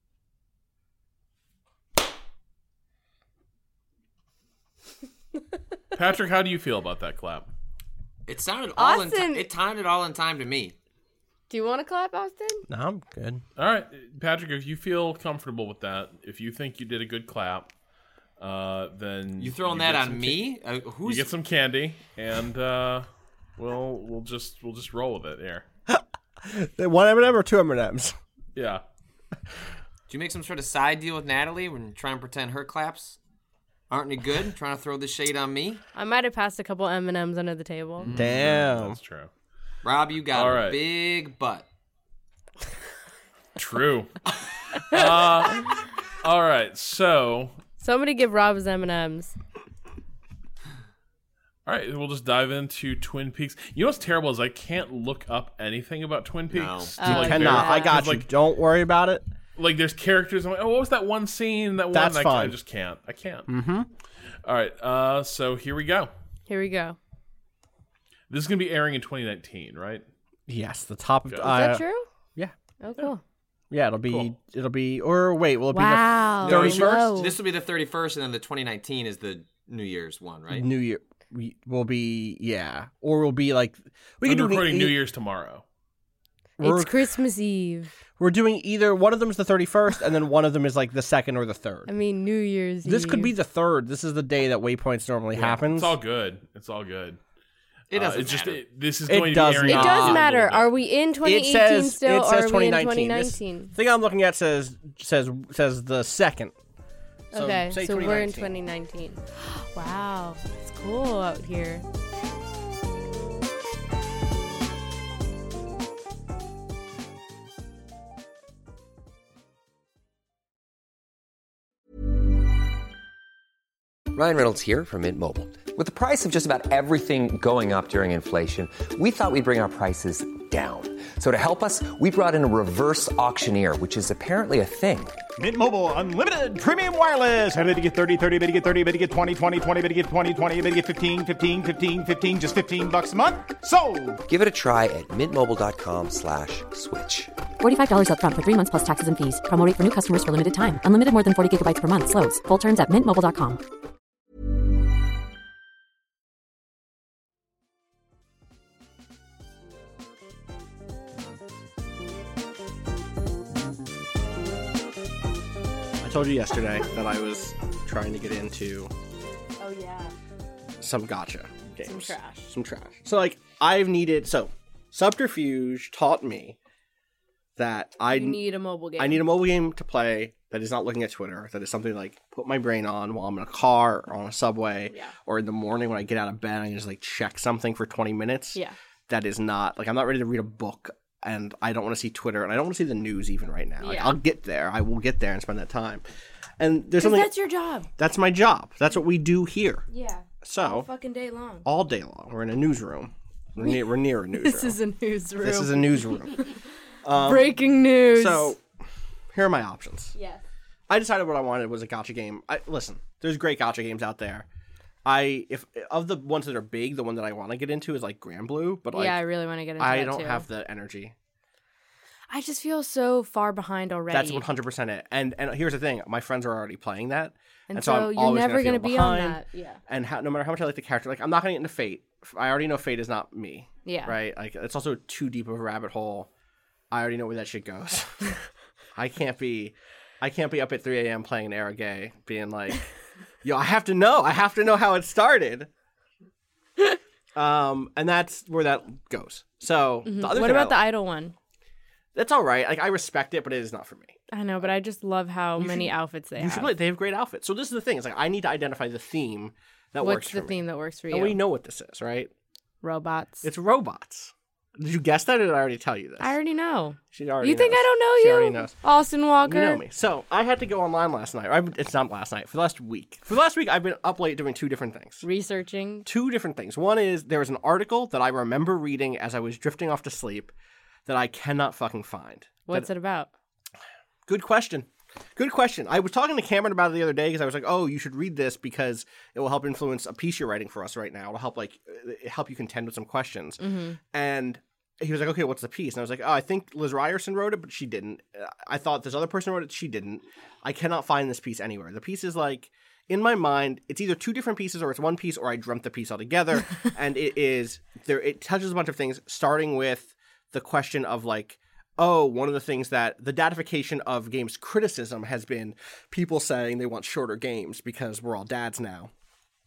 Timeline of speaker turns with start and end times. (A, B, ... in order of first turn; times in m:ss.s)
0:06.0-0:07.5 A
0:08.3-0:10.8 B
0:08.8-0:09.5 C
0:11.5-0:12.6 C
0:12.7-0:13.4 D
0:13.6-0:17.7 A
0:18.4-0:20.4 A
0:19.4-0:21.3 B
0:21.0-0:25.6 A
0:25.9-0:28.2 D
0:28.6-0:28.8 A
0:30.1-0:33.2 B
0:33.9-0:35.8 B
0:36.0-0:38.1 C
0:38.0-0:38.3 B
0:38.1-0:39.0 D
0:38.2-0:39.3 A
0:39.8-0:41.7 B
0:40.3-0:40.8 A
0:43.6-0:44.1 A
0:44.9-0:47.6 A
0:47.8-0:49.4 C
0:51.7-0:58.3 A
0:56.5-0:57.0 B
0:57.0-0:58.0 C
0:57.0-0:59.2 D
0:59.6-1:03.5 A
1:01.9-1:02.6 D
1:03.5-1:03.9 D
1:04.4-1:06.1 A
1:06.5-1:07.0 C
1:08.3-1:10.0 A
1:10.5-1:11.8 D
1:11.3-1:11.6 A
1:11.4-1:12.1 C
1:12.8-1:13.2 C
1:13.7-1:17.3 D
1:15.7-1:17.4 C
1:16.4-1:20.7 B
1:20.5-1:25.0 D
1:24.2-1:25.6 A
1:26.6-1:27.9 C
1:26.6-1:27.1 D
1:28.2-1:31.9 D
1:31.9-1:33.3 C
1:32.8-1:36.0 D
1:35.4-1:37.2 A
1:37.9-1:38.6 B
1:37.9-1:40.7 A
1:39.1-1:40.3 D
1:39.7-1:43.7 C
1:41.2-1:46.6 D
1:47.3-1:51.8 C
1:47.3-1:48.5 D
2:04.1-2:15.2 E
2:15.4-2:24.2 F
2:24.2-2:27.3 E
2:27.6-2:33.6 G
2:46.0-2:48.9 D
2:49.6-2:50.1 C
2:50.8-2:56.6 D
2:51.8-2:52.5 C
2:57.6-2:58.4 D
2:58.1-2:59.2 C
2:59.0-3:16.0 D
3:13.8-3:14.2 C
3:16.6-3:17.3 D
3:17.0-3:17.9 C
3:18.0-3:19.8 D
3:19.9-3:21.6 C
3:20.4-3:20.9 D
3:21.6-3:24.8 D
3:24.4-3:26.5 C
3:25.4-3:26.4 D
3:27.0-3:28.6 D
3:27.2-3:28.6 C
3:29.3-3:30.2 D
3:30.2-3:30.4 C
3:30.9-3:34.5 D
3:35.0-3:39.2 D
3:38.9-3:40.5 C
3:39.8-3:41.2 D
3:42.3-3:44.4 C
3:44.1-3:56.3 D
3:47.7-3:49.8 C
3:53.9-3:54.2 C
3:56.9-3:58.4 D
3:59.0-4:02.8 D
4:03.4-4:05.7 D
4:07.4-4:10.8 D
4:10.0-4:11.3 C
4:12.2-4:14.2 D
4:14.3-4:16.7 C
4:15.6-4:22.3 D
4:20.0-4:21.4 C
4:22.8-4:23.5 C
4:23.4-4:26.4 D
4:26.2-4:29.8 C
4:27.1-4:28.7 D
4:29.4-4:35.2 D
4:35.2-4:36.1 C
4:36.0-4:40.5 D
4:41.1-4:42.9 D
4:42.7-4:43.3 C
4:44.3-5:19.1 D
4:53.6-4:54.0 C